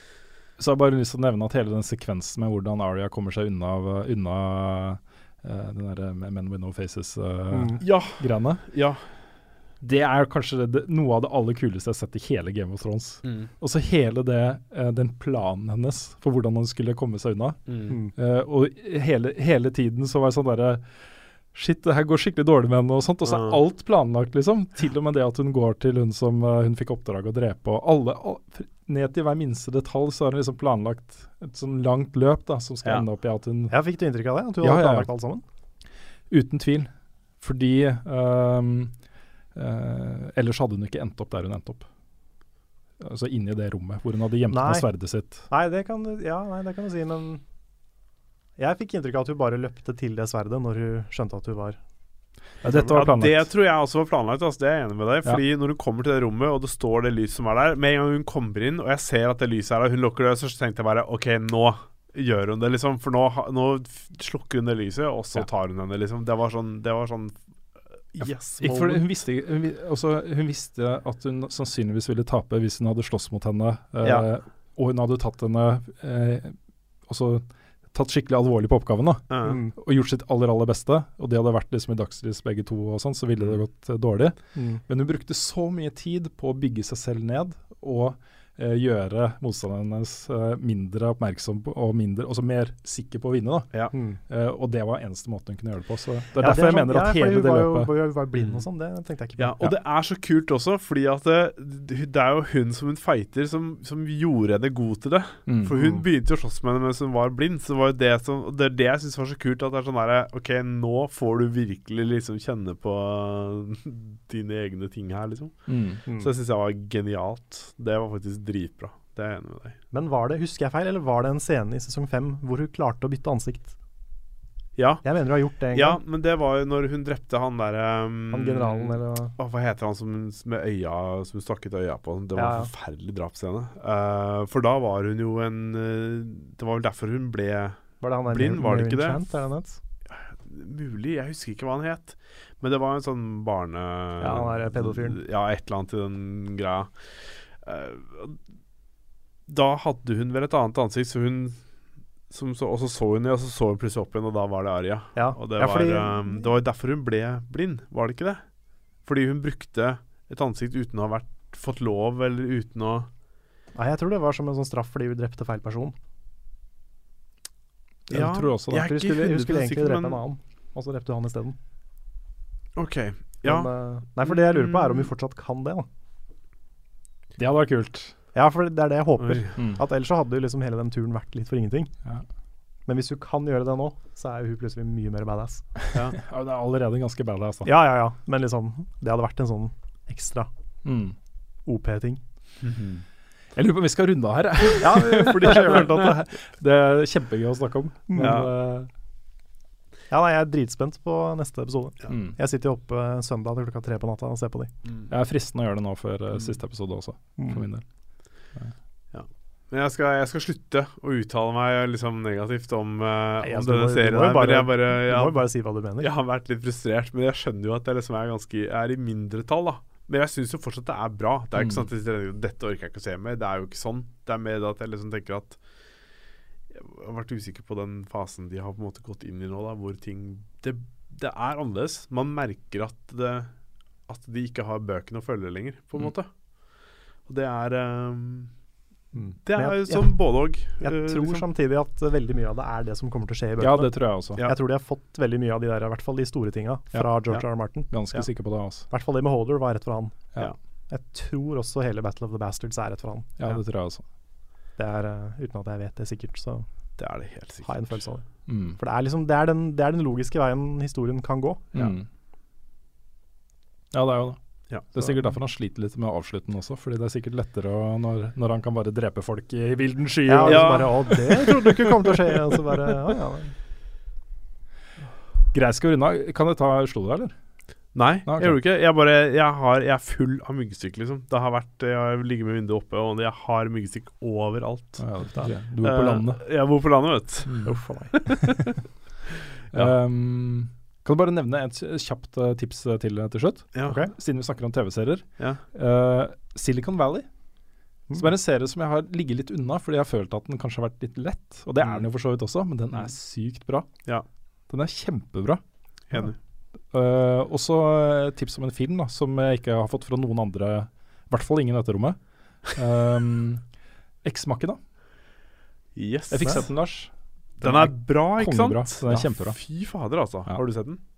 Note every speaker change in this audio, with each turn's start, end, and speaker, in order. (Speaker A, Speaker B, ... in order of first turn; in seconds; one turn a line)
Speaker A: 0.6-8.6
Speaker B: 7.5-7.8
Speaker C: 7.8-9.0
Speaker A: 9.8-20.9
Speaker C: 13.2-13.5
Speaker C: 17.7-18.0
Speaker A: 21.5-33.8
Speaker C: 23.2-23.6
Speaker B: 33.7-35.4
Speaker A: 34.6-35.1
Speaker A: 36.3-38.9
Speaker A: 39.5-41.9
Speaker A: 43.0-45.5
Speaker B: 44.5-44.9
Speaker B: 45.5-47.4
Speaker B: 48.6-51.8
Speaker A: 52.6-53.5
Speaker C: 52.6-67.3
Speaker C: 68.1-69.0
Speaker A: 68.2-76.6
Speaker A: 77.1-84.4
Speaker C: 79.3-79.6
Speaker B: 79.4-79.7
Speaker B: 84.5-84.8
Speaker A: 84.9-93.7
Speaker B: 93.9-94.2
Speaker A: 94.3-97.9
Speaker B: 96.4-99.5
Speaker C: 98.4-98.6
Speaker C: 99.4-119.8
Speaker A: 105.5-105.8
Speaker B: 105.7-106.0
Speaker A: 115.7-116.0
Speaker B: 119.9-123.7
Speaker C: 124.8-125.0
Speaker B: 125.0-126.0
Speaker C: 125.7-139.2
Speaker B: 128.3-129.3
Speaker B: 132.3-132.7
Speaker B: 138.0-139.8
Speaker C: 140.1-148.4
Speaker B: 144.2-145.2
Speaker C: 149.5-151.6
Speaker C: 152.3-158.4
Speaker B: 155.2-156.4
Speaker C: 159.1-163.1
Speaker B: 163.8-165.9
Speaker A: 168.1-168.9
Speaker C: 168.1-170.2
Speaker B: 168.7-171.6
Speaker C: 172.8-173.7
Speaker B: 173.4-175.9
Speaker C: 174.2-175.1
Speaker A: 177.4-178.1
Speaker B: 178.3-181.9
Speaker C: 179.2-179.6
Speaker A: 179.6-179.8
Speaker B: 182.9-185.7
Speaker C: 185.9-186.2
Speaker A: 186.1-187.7
Speaker B: 187.7-190.5
Speaker A: 190.8-191.2
Speaker B: 191.7-192.2
Speaker C: 192.6-193.0
Speaker A: 193.6-198.9
Speaker B: 194.8-196.1
Speaker B: 198.1-198.5
Speaker C: 198.2-198.5
Speaker B: 200.1-204.7
Speaker A: 202.1-202.4
Speaker A: 205.1-207.8
Speaker B: 207.4-207.6
Speaker C: 209.1-215.5
Speaker B: 213.4-216.1
Speaker C: 216.0-225.6
Speaker A: 221.6-221.9
Speaker C: 226.7-233.5
Speaker C: 234.1-236.3
Speaker C: 237.3-238.5
Speaker B: 239.1-240.2
Speaker C: 239.4-241.5
Speaker B: 240.8-247.9
Speaker A: 243.6-244.4
Speaker A: 246.9-247.2
Speaker A: 247.9-248.9
Speaker B: 248.9-250.2
Speaker B: 250.9-253.4
Speaker A: 253.4-254.0
Speaker B: 254.8-256.7
Speaker C: 257.0-258.0
Speaker B: 257.6-258.2
Speaker A: 258.5-258.8
Speaker B: 258.8-261.9
Speaker A: 261.7-262.1
Speaker A: 263.9-272.1
Speaker B: 270.3-273.5
Speaker C: 270.4-271.3
Speaker A: 275.5-277.3
Speaker C: 277.9-285.1
Speaker A: 278.3-278.6
Speaker A: 285.0-286.4
Speaker C: 285.8-288.8
Speaker A: 287.5-288.6
Speaker B: 287.6-288.1
Speaker A: 289.7-297.3
Speaker C: 293.8-294.0
Speaker B: 293.8-294.1
Speaker A: 298.1-303.9
Speaker A: 304.7-305.6
Speaker C: 306.1-306.4
Speaker A: 306.9-312.2
Speaker A: 312.7-313.6
Speaker A: 314.2-314.8
Speaker C: 316.0-316.7
Speaker A: 316.3-317.1
Speaker C: 317.6-321.0
Speaker A: 317.6-319.6